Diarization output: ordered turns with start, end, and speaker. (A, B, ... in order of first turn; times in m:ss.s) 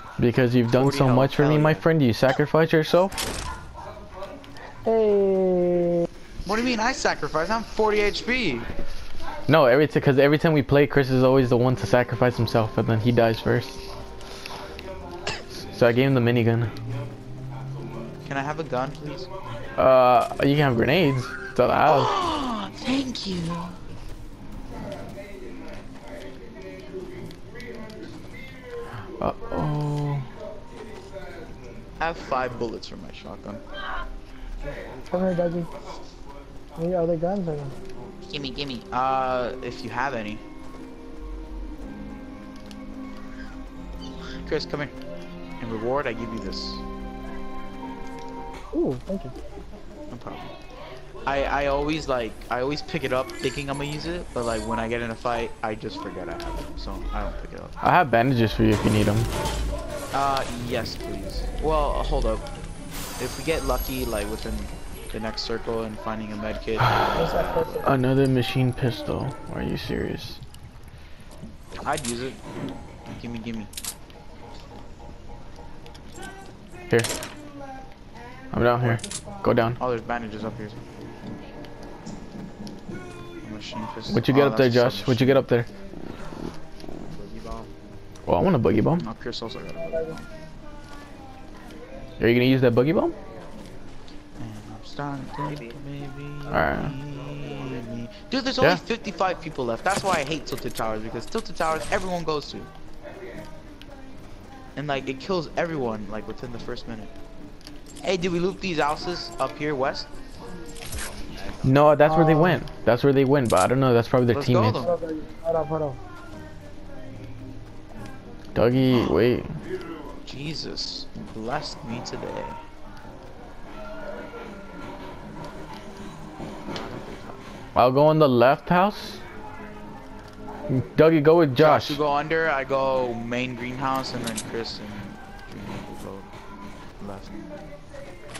0:00.2-0:03.1 A
0:00.7-0:01.8 B
0:04.8-0:06.0 C
0:06.5-0:08.7 B
0:09.5-0:13.8 A
0:15.7-0:16.7 A
0:18.3-0:19.3 B
0:19.8-0:22.1 A
0:21.9-0:23.8 B
0:29.2-0:30.3 A
0:32.0-0:33.6 B
0:34.6-0:35.5 D
0:35.1-0:35.7 C
0:36.8-0:37.7 C
0:38.3-0:40.4 B
0:44.4-0:44.9 B
0:45.6-0:46.8 B
0:48.7-0:49.3 C
0:50.1-0:50.5 B
0:51.2-0:57.8 B
0:57.8-0:59.3 A
1:00.1-1:02.4 B
1:03.2-1:07.9 B
1:07.1-1:08.0 C
1:07.8-1:10.4 A
1:11.8-1:12.4 B
1:13.1-1:13.7 B
1:18.5-1:19.8 A
1:19.8-1:20.8 B
1:23.4-1:25.4 B
1:24.1-1:25.7 A
1:27.1-1:27.7 D
1:28.3-1:29.0 A
1:29.0-1:30.3 B
1:29.8-1:30.2 C
1:32.2-1:33.1 A
1:34.4-1:42.7 B
1:36.5-1:36.9 A
1:44.8-1:47.1 B
1:48.0-1:50.1 B
1:50.9-1:51.9 D
1:51.6-1:54.8 A
1:52.0-1:52.6 C
1:54.3-1:54.9 B
1:54.8-1:56.0 C
1:58.5-1:59.6 A
2:00.2-2:02.6 B
2:06.7-2:07.4 D
2:07.8-2:09.2 A
2:10.7-2:12.0 A
2:11.6-2:16.3 B
2:17.0-2:17.3 B